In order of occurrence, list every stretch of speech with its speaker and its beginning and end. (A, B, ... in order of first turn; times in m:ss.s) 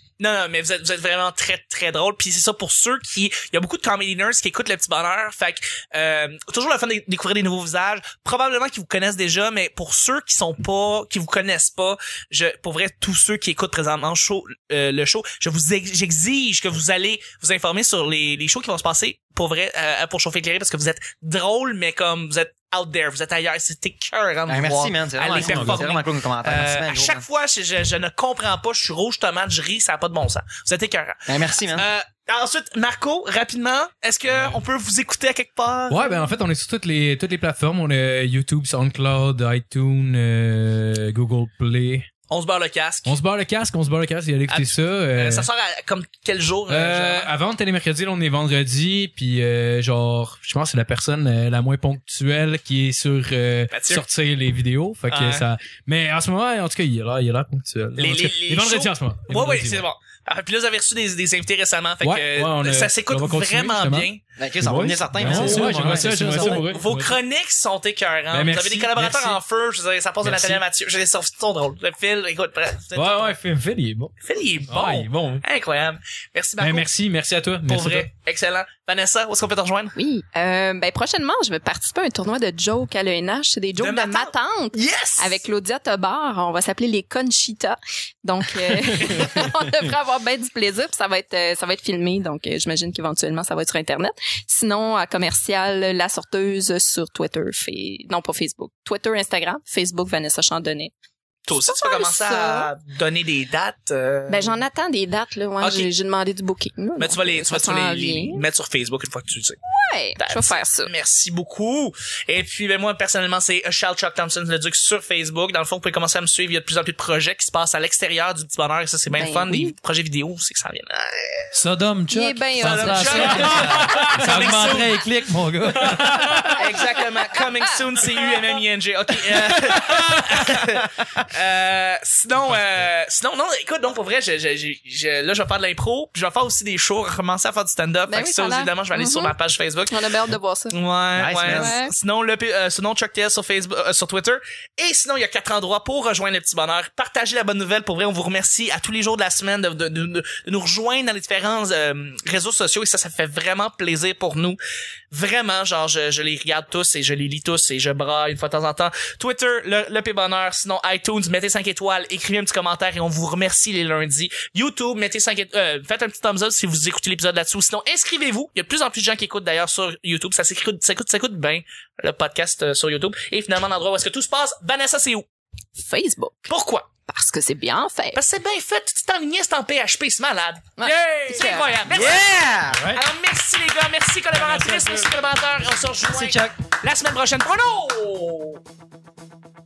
0:00.2-0:36.1 A
0:24.5-0:27.2 B
0:25.4-0:25.9 C
0:31.3-0:31.9 B
0:34.3-0:34.6 D
0:35.9-0:42.1 D
0:42.3-0:43.1 A
0:43.1-0:45.5 D
0:44.5-0:47.3 A
0:46.7-0:59.9 D
0:53.7-0:54.0 A
0:55.1-0:55.5 A
0:58.0-1:04.2 A
1:02.0-1:07.2 D
1:04.4-1:06.6 B
1:05.2-1:06.6 C
1:06.4-1:13.4 A
1:08.3-1:09.4 D
1:10.2-1:10.6 D
1:13.0-1:14.2 D
1:14.2-1:16.9 A
1:14.7-1:15.4 D
1:16.6-1:18.1 D
1:17.7-1:20.0 A
1:20.0-1:40.9 E
1:23.8-1:25.4 A
1:29.1-1:29.5 A
1:41.5-1:44.6 A
1:41.5-1:42.7 E
1:44.3-1:48.4 E
1:45.6-1:45.9 A
1:47.0-1:49.6 A
1:49.7-1:50.9 E
1:50.2-2:01.5 A
1:59.1-1:59.8 E
2:01.5-2:06.6 C
2:02.1-2:04.7 E
2:02.6-2:05.0 A
2:03.6-2:04.2 D
2:05.8-2:06.5 D
2:06.5-2:20.2 A
2:07.2-2:08.2 E
2:12.5-2:12.8 D
2:18.1-2:19.4 E
2:19.9-2:20.8 E
2:20.7-2:34.6 A
2:21.2-2:21.8 B
2:21.4-2:21.9 E
2:35.1-2:55.2 A
2:55.8-2:56.5 E
2:56.5-2:56.9 A
2:57.1-2:58.2 E
2:58.1-3:02.3 A
3:00.8-3:01.8 E
3:01.9-3:02.9 B
3:02.9-3:08.6 A
3:04.4-3:05.1 D
3:06.1-3:06.6 B